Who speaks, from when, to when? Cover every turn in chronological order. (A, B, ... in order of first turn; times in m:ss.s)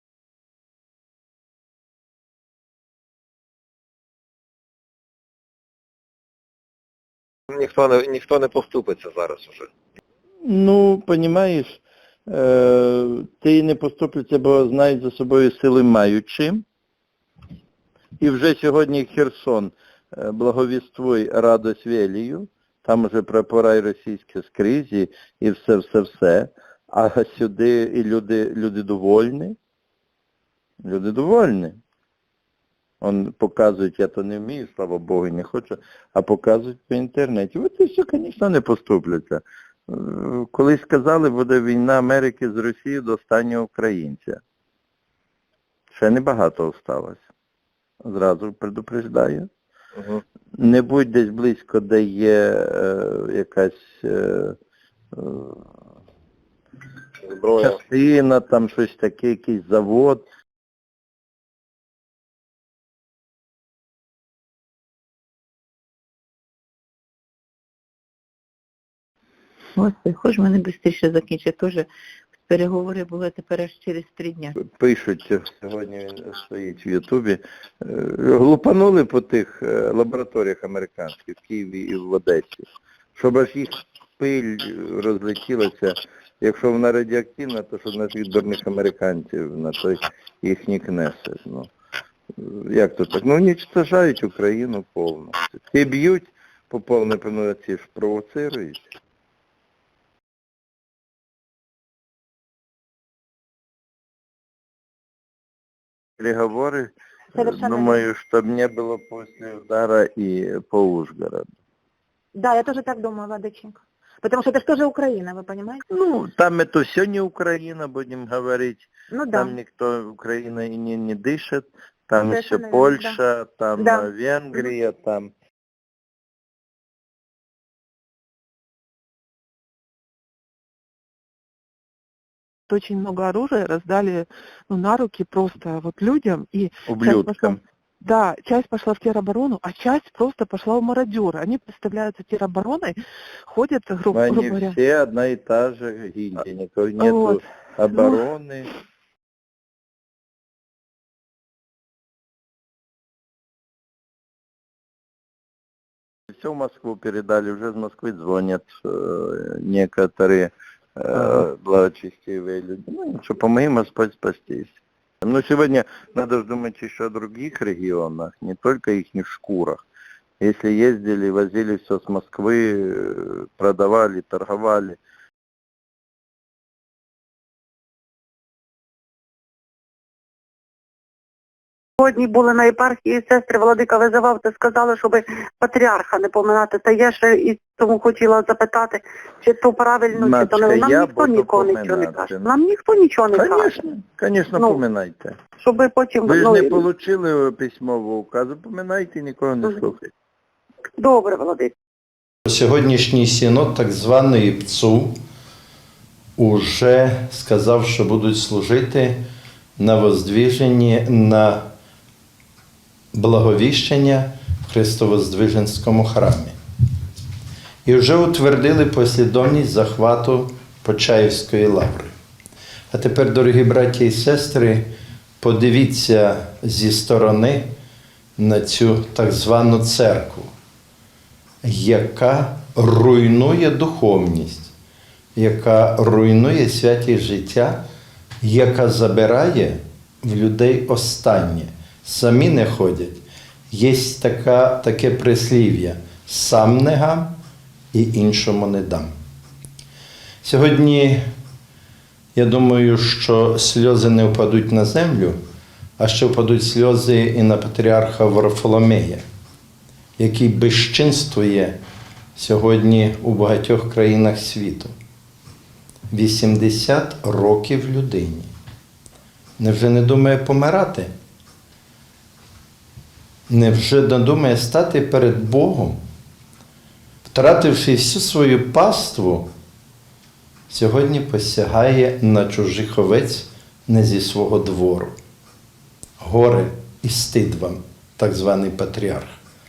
0:07.5-0:09.7 A
0:10.4-0:16.6 B
0:18.2-0:29.6 B
0:30.8-0:31.8 B
0:33.0-0:44.4 B
0:45.9-0:47.2 B
0:48.0-0:49.5 B
0:50.6-0:54.6 B
0:55.1-0:55.6 B
0:57.3-0:57.7 A
0:57.6-1:00.2 B
1:09.8-1:11.9 C
1:12.4-1:14.6 C
1:14.6-1:31.7 B
1:32.4-1:38.9 B
1:46.2-1:51.4 B
1:47.3-1:48.1 D
1:52.4-1:55.8 D
1:55.9-2:05.3 B
1:59.1-1:59.6 D
2:02.2-2:03.2 D
2:03.8-2:04.7 D
2:12.7-2:24.8 E
2:16.9-2:17.6 B
2:24.1-2:28.7 B
2:27.0-2:27.4 E
2:27.9-2:28.2 E
2:36.3-2:49.8 B
2:50.4-2:55.0 B
3:02.0-3:13.8 F
3:10.1-3:12.5 B
3:13.3-3:15.4 B
3:14.6-3:14.8 F
3:15.6-3:16.9 F
3:16.2-3:20.1 B
3:21.0-3:21.7 F
3:22.5-3:25.1 G
3:26.4-3:29.2 G
3:29.8-3:31.6 G
3:33.1-3:36.5 G
3:37.8-3:42.1 G
3:42.9-3:44.9 G
3:45.4-3:47.6 G
3:48.4-3:50.5 G
3:51.6-3:54.7 G
3:55.4-3:57.8 G
3:58.4-4:03.2 G
4:03.7-4:07.3 G
4:07.9-4:09.1 G
4:10.4-4:11.2 G
4:12.4-4:15.4 G
4:16.0-4:19.2 G
4:20.2-4:21.8 G
4:22.4-4:24.9 G
4:26.1-4:28.5 G
4:29.6-4:31.1 G
4:33.5-4:36.0 G
4:37.3-4:39.5 G
4:40.7-4:45.2 G
4:46.2-4:49.4 G